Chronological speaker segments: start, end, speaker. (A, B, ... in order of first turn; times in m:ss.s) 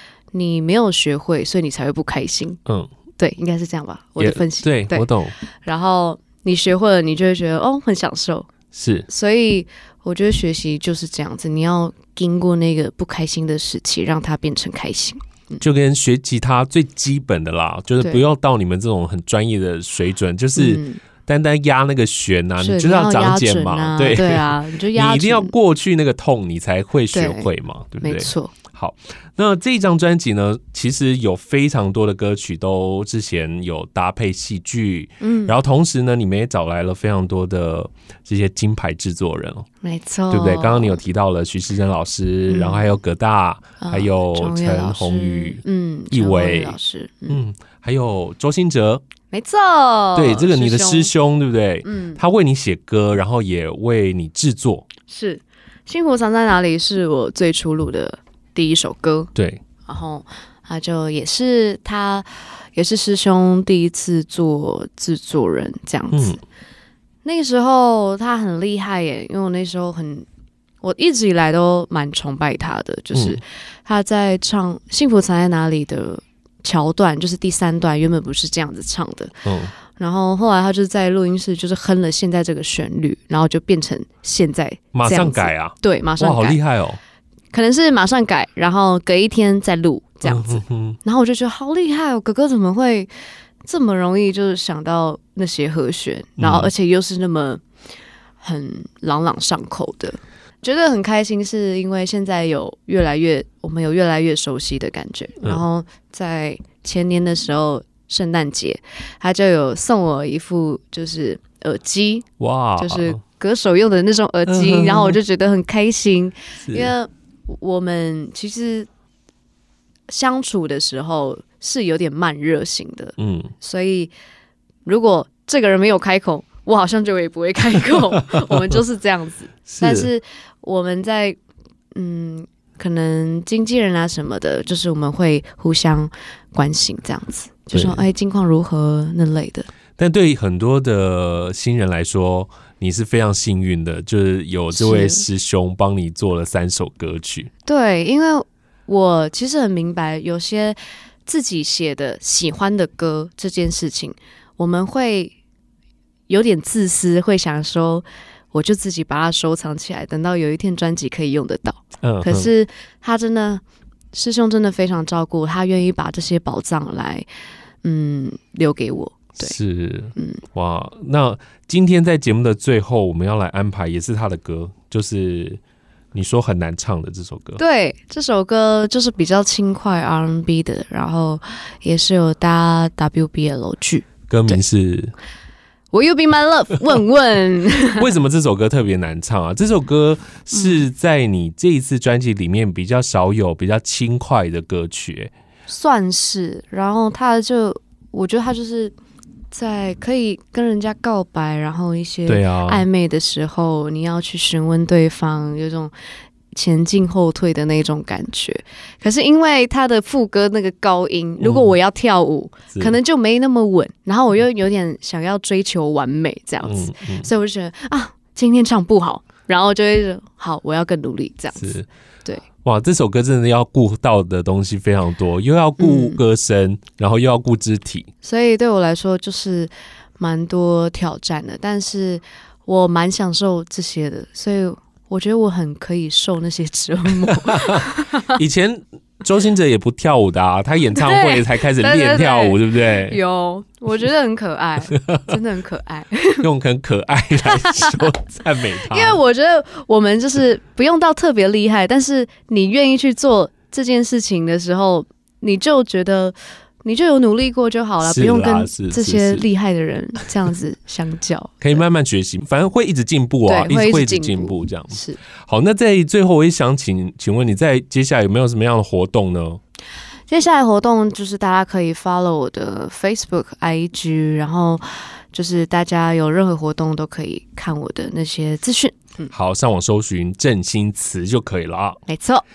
0:00.3-0:02.6 A
0:03.2-0:05.1 A
0:04.2-0:05.3 B
0:05.6-0:08.5 A
0:08.7-0:09.1 B
0:09.1-0:15.6 A
0:15.6-0:39.7 B
0:20.6-0:21.0 A
0:22.6-0:25.5 A
0:27.1-0:27.5 A
0:28.0-0:28.5 A
0:35.2-0:35.5 A
0:39.8-0:41.0 A
0:40.3-0:46.8 B
0:42.5-0:42.9 A
0:43.8-0:47.4 A
0:47.3-0:49.0 B
0:49.3-0:51.1 A
0:50.1-0:54.9 B
0:51.8-0:52.2 A
0:55.1-0:59.3 A
0:59.3-0:59.6 B
0:59.8-1:06.4 A
1:06.1-1:06.4 B
1:07.2-1:10.2 A
1:10.8-1:19.3 A
1:13.1-1:13.4 B
1:19.4-1:19.7 B
1:19.9-1:26.6 A
1:24.9-1:27.0 B
1:27.5-1:33.1 A
1:30.2-1:31.0 B
1:33.6-1:37.6 A
1:36.4-1:36.7 B
1:38.4-1:52.3 A
1:52.4-1:53.2 B
1:52.8-1:58.9 A
1:54.5-1:55.2 B
1:56.6-1:56.9 B
2:00.1-2:04.1 A
2:03.2-2:03.5 B
2:04.8-2:11.4 A
2:08.3-2:08.6 B
2:09.7-2:10.1 B
2:11.9-2:19.7 A
2:17.7-2:18.0 B
2:20.0-2:27.5 B
2:24.7-2:25.2 A
2:27.6-2:35.3 A
2:36.3-2:43.6 A
2:42.0-2:42.5 B
2:44.1-2:47.3 A
2:47.8-2:49.5 A
2:49.4-2:55.6 B
2:50.2-2:50.4 A
2:56.1-2:57.6 B
2:57.6-3:04.6 A
3:04.3-3:05.1 B
3:05.9-3:08.1 A
3:08.0-3:15.3 B
3:10.5-3:10.9 A
3:15.7-3:18.9 A
3:19.5-3:25.9 A
3:22.3-3:22.8 B
3:26.5-3:42.4 A
3:31.4-3:31.7 B
3:36.6-3:37.3 B
3:41.6-3:41.9 B
3:42.6-3:48.1 B
3:45.8-3:46.2 A
3:48.2-3:58.4 A
3:57.2-4:03.2 B
4:00.9-4:06.5 A
4:04.9-4:05.3 B
4:06.4-4:09.2 B
4:07.4-4:08.0 A
4:08.8-4:21.8 A
4:18.0-4:19.4 B
4:21.6-4:29.6 B
4:23.5-4:25.2 A
4:30.3-4:39.3 A
4:39.3-4:42.0 B
4:42.1-4:42.4 A